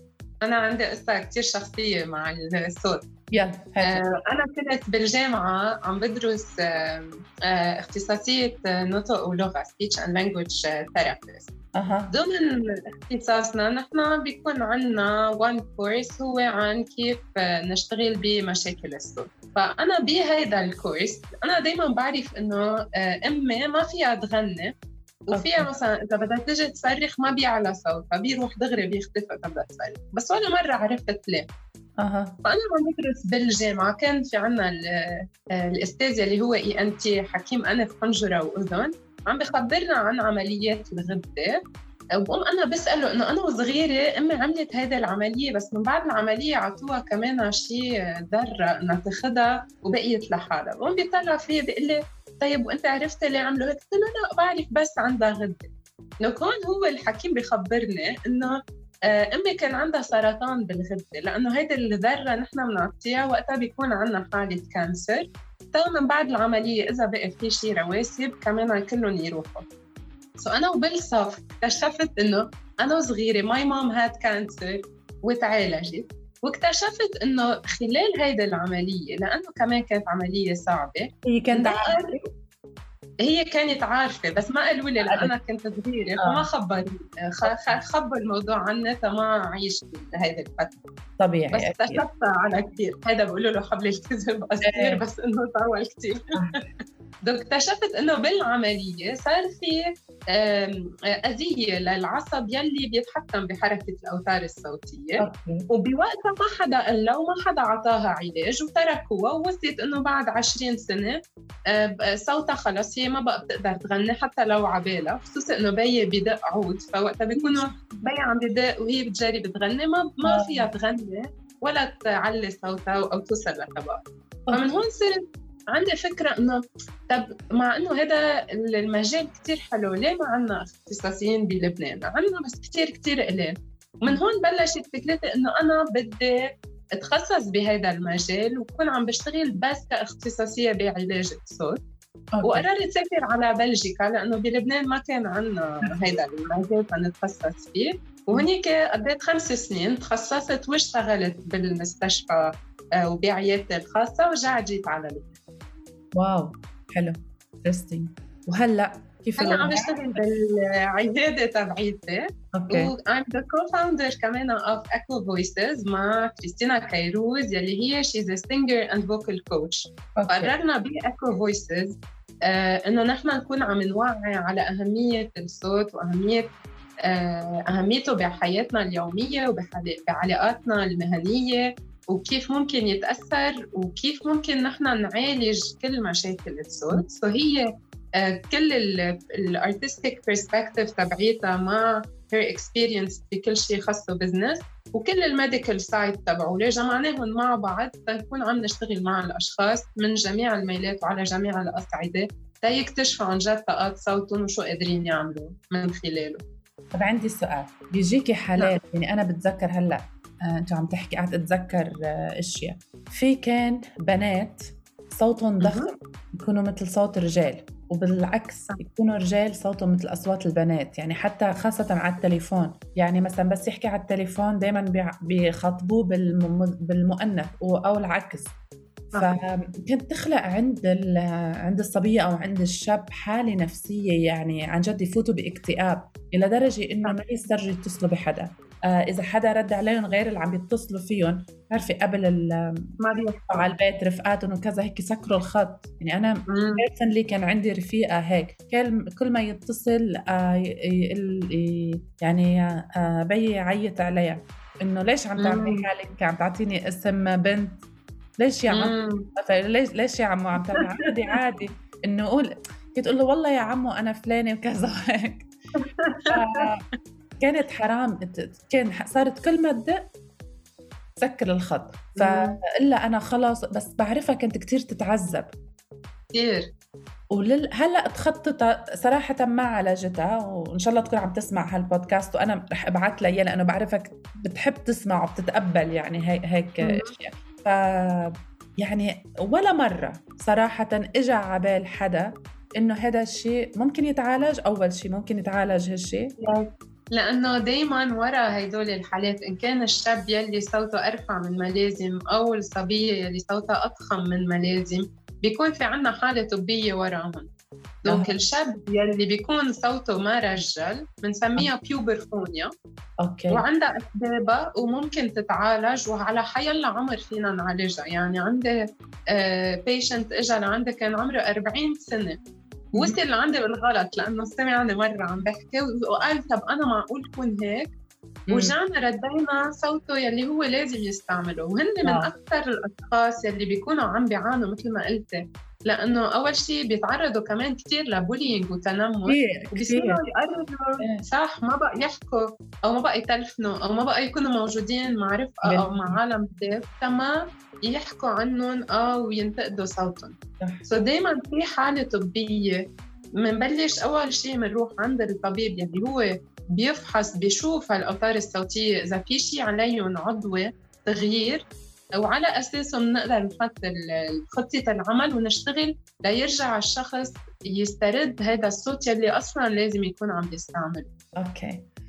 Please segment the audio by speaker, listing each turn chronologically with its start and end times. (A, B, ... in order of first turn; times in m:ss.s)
0:00.4-0:03.0 A
0:03.3-0:04.0 B
0:03.8-0:11.5 A
0:11.8-0:12.1 B
0:12.1-0:24.7 A
0:25.3-0:31.4 A
0:25.3-0:25.7 B
0:32.0-0:32.4 B
0:32.4-0:41.6 A
0:42.2-0:55.7 A
0:56.2-0:58.6 A
0:59.1-1:09.7 A
1:10.4-1:22.3 A
1:21.2-1:22.1 B
1:23.2-1:30.8 A
1:25.1-1:25.3 B
1:26.2-1:26.5 B
1:31.2-1:32.0 B
1:31.5-1:36.3 A
1:34.6-1:35.0 B
1:36.4-1:36.6 B
1:37.2-2:21.8 A
1:45.2-1:45.7 B
1:57.3-1:58.0 B
2:00.3-2:00.7 B
2:22.3-2:22.7 B
2:22.4-2:35.4 A
2:25.8-2:26.2 B
2:36.2-2:40.2 B
2:39.4-3:07.6 A
2:42.5-2:42.9 B
2:50.2-2:50.5 B
3:08.2-3:26.4 A
3:26.9-3:48.5 B
3:35.6-3:35.9 A
3:49.2-4:02.9 B
4:03.0-4:03.7 A
4:03.5-4:17.8 B
4:06.5-4:06.8 A
4:15.4-4:15.8 A
4:18.4-4:25.5 B
4:18.7-4:19.3 A
4:25.8-4:26.7 A
4:26.3-4:26.8 B
4:27.4-4:30.1 B
4:31.2-4:35.5 B
4:32.2-4:32.6 A
4:36.3-4:36.7 A
4:37.3-4:56.4 B
4:46.8-4:47.2 A
4:56.4-5:07.5 A
5:08.0-5:12.7 A
5:08.1-5:08.4 B
5:13.2-5:13.6 B
5:13.5-5:18.8 A
5:19.3-5:22.4 A
5:23.0-5:27.9 A
5:28.5-5:28.8 B
5:28.5-5:50.4 A
5:32.0-5:32.3 B
5:39.3-5:40.2 B
5:45.6-5:46.2 B
5:50.6-5:50.8 B
5:50.9-5:52.8 A
5:53.4-6:11.1 A
6:11.4-6:11.9 B